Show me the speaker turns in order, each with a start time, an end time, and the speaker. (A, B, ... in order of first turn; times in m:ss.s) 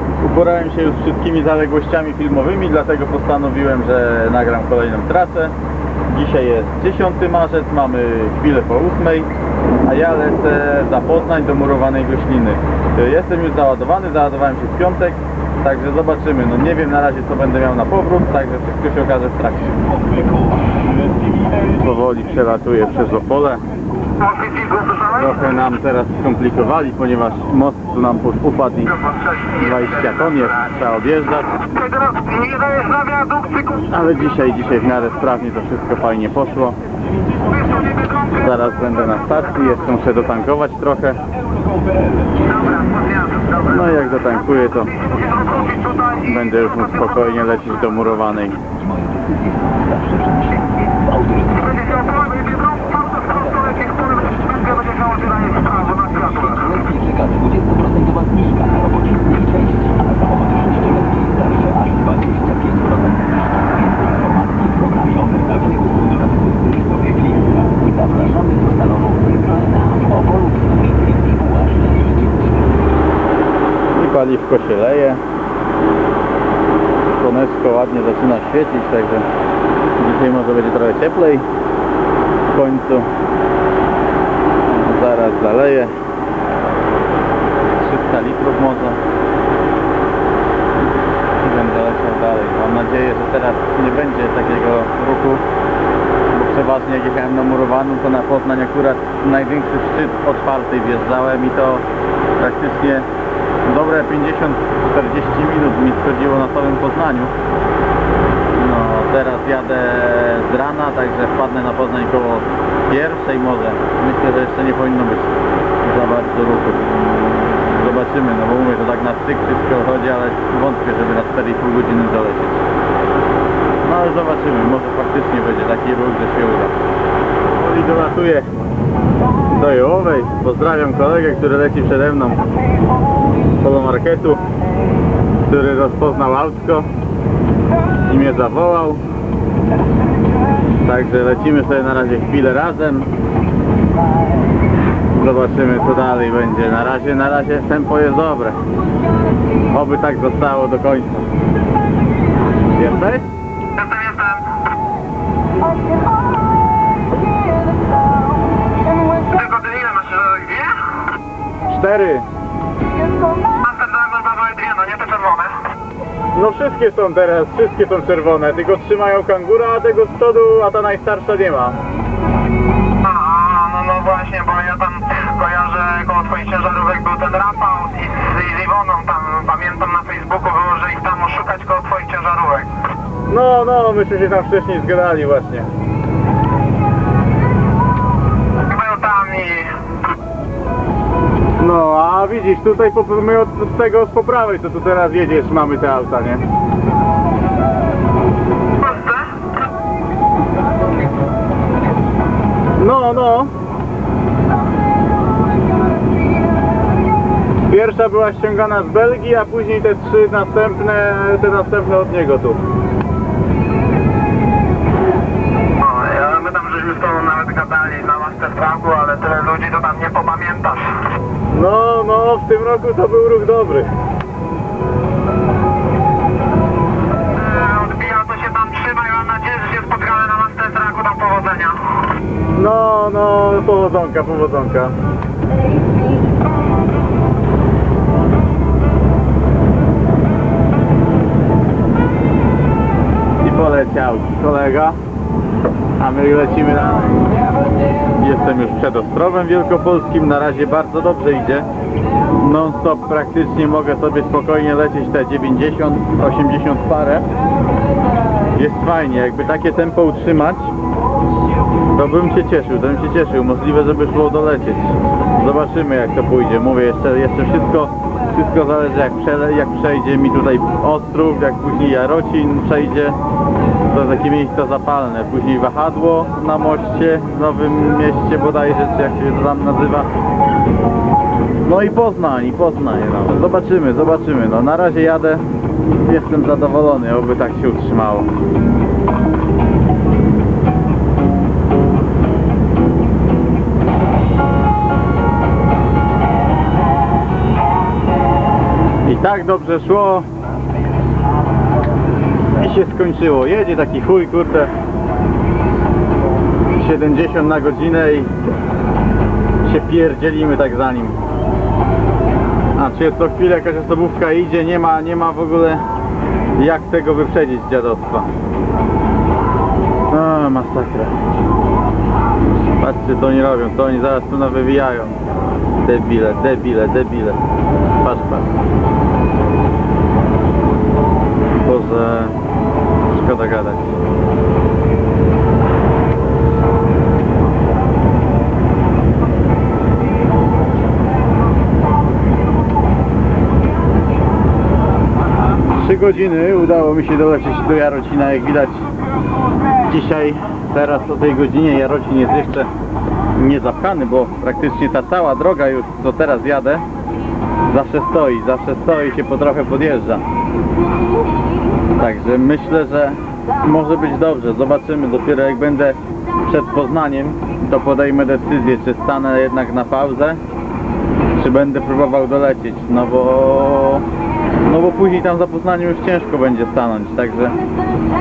0:00.2-0:05.6 A
0:06.1-0:09.3 A
0:09.8-0:19.8 A
0:21.7-0:23.6 A
0:24.2-0:25.0 B
0:25.0-0:31.7 A
0:31.9-0:33.8 B
0:33.8-0:36.8 A
0:38.2-0:41.2 A
0:42.6-0:43.4 B
0:43.6-0:48.6 A
0:50.2-0:50.4 C
0:51.2-0:58.9 C
0:55.2-0:56.5 B
1:08.1-1:12.0 C
1:13.9-1:15.2 A
1:17.2-1:19.3 A
1:20.0-1:21.5 A
1:22.5-1:23.1 A
1:24.7-1:25.9 A
1:27.7-1:29.0 A
1:31.4-1:35.4 A
1:36.3-1:41.8 A
1:42.4-1:43.1 A
1:43.6-1:47.3 A
1:48.5-1:56.9 A
1:57.7-2:02.6 A
2:03.8-2:06.7 A
2:07.5-2:08.5 A
2:09.4-2:12.4 A
2:13.6-2:14.4 A
2:15.4-2:16.9 A
2:18.0-2:19.0 A
2:20.8-2:23.1 A
2:25.1-2:28.6 A
2:29.7-2:31.3 A
2:32.6-2:33.3 A
2:33.7-2:34.5 B
2:39.0-2:41.0 B
2:41.7-2:42.3 A
2:43.4-2:45.6 B
2:46.3-2:51.8 A
2:53.0-3:02.7 B
3:03.3-3:05.7 A
3:08.6-3:09.8 B
3:11.6-3:16.4 A
3:18.8-3:19.5 B
3:22.8-3:23.5 A
3:27.7-3:32.6 A
3:35.6-3:41.1 B
3:41.5-3:43.9 A
3:47.3-3:52.1 B
3:52.5-3:55.0 A
4:03.4-4:05.0 A
4:06.0-4:07.3 A
4:08.1-4:11.7 A
4:12.3-4:17.3 A
4:18.5-4:20.7 A
4:21.9-4:33.2 A
4:33.9-4:40.1 A
4:41.6-4:45.5 A
4:46.0-4:48.3 A
4:59.0-5:00.3 A
5:02.6-5:04.7 A
5:06.7-5:08.3 A
5:09.6-5:11.2 A
5:12.8-5:15.8 A
5:16.6-5:18.3 A
5:20.1-5:21.2 A
5:22.8-5:25.2 A
5:25.8-5:27.4 A
5:28.0-5:28.5 A
5:31.6-5:32.4 A
5:33.1-5:34.0 A
5:45.7-5:48.9 A
5:49.9-5:52.7 A
5:53.3-5:56.8 A
5:57.7-6:00.2 A
6:01.9-6:10.4 A
6:11.3-6:14.1 A
6:14.6-6:17.6 A